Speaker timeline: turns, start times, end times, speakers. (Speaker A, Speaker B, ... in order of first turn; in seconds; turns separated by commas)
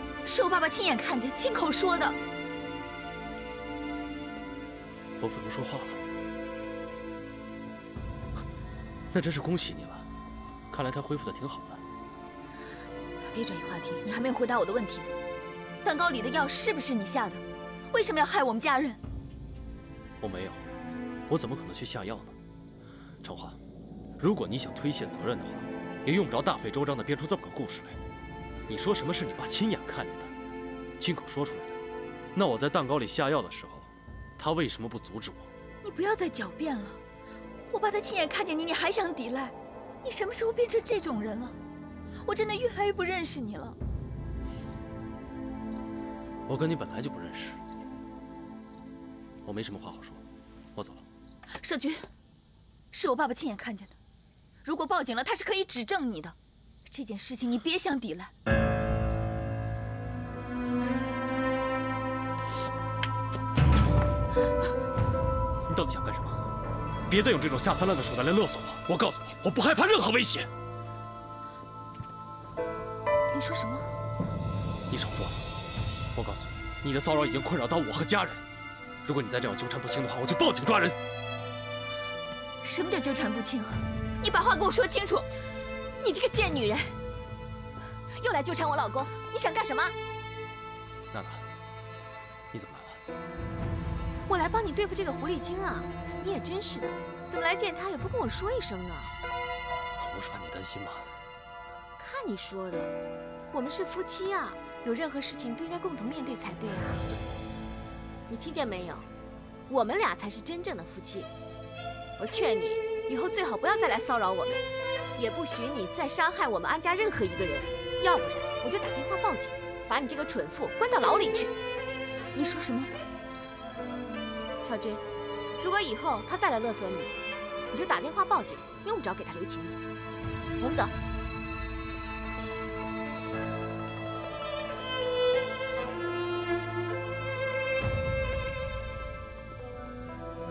Speaker A: 0.2-2.2, Speaker B: 5.2-6.0, Speaker B: 9.1-10.1, Speaker B: 10.7-11.8, Speaker A: 13.3-15.1, Speaker A: 15.8-19.0, Speaker B: 20.2-20.6, Speaker B: 21.3-22.4, Speaker B: 23.2-23.6, Speaker B: 24.2-28.0, Speaker B: 28.7-30.3, Speaker B: 31.0-31.8, Speaker B: 32.3-35.5, Speaker A: 35.8-37.0, Speaker A: 37.7-41.6, Speaker A: 42.1-43.8, Speaker B: 46.5-47.6, Speaker B: 49.4-50.2, Speaker B: 50.7-51.0, Speaker A: 51.6-52.1, Speaker A: 52.9-53.9, Speaker A: 54.6-56.4, Speaker A: 56.9-58.3, Speaker B: 65.7-66.5, Speaker B: 67.1-70.5, Speaker A: 73.3-73.9, Speaker B: 74.9-75.4, Speaker B: 76.1-78.4, Speaker B: 79.0-81.0, Speaker A: 82.6-85.3, Speaker A: 86.0-86.9, Speaker C: 88.2-89.2, Speaker A: 89.2-89.9, Speaker B: 91.1-91.5, Speaker B: 92.5-93.0, Speaker C: 94.3-99.1, Speaker B: 100.0-101.1, Speaker C: 102.0-102.9, Speaker C: 103.5-107.0, Speaker C: 108.3-109.1, Speaker C: 109.7-111.3, Speaker C: 112.2-114.6, Speaker C: 115.2-121.5, Speaker A: 122.3-122.9, Speaker C: 124.6-125.0, Speaker C: 125.6-127.1, Speaker C: 127.7-129.8, Speaker C: 130.6-130.9